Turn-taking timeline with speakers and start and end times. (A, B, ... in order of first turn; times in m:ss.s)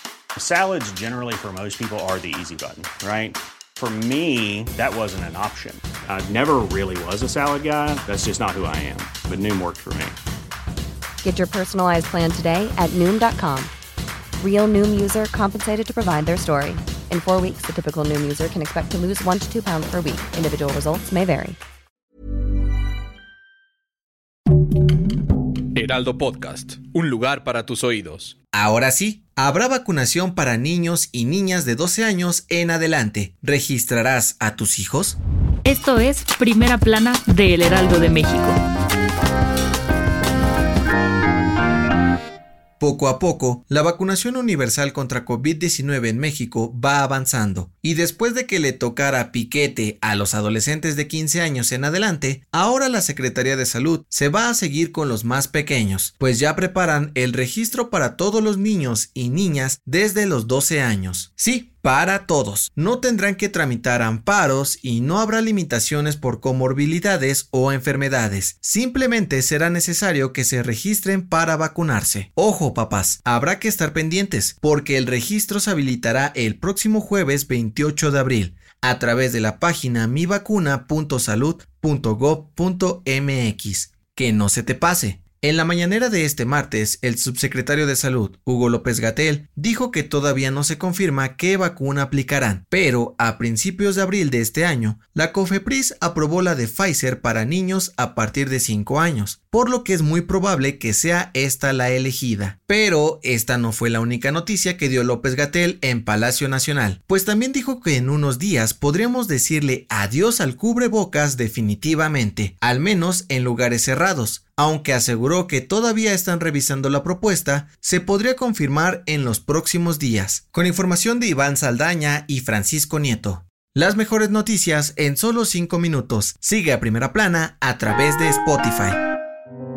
0:00.4-0:10.2 A
0:11.2-0:13.7 B
0:14.4-0:21.6 B
0:25.8-0:28.4 C
0:28.5-0:35.2 D
0:35.6-0:38.6 E
0:42.8-2:09.0 D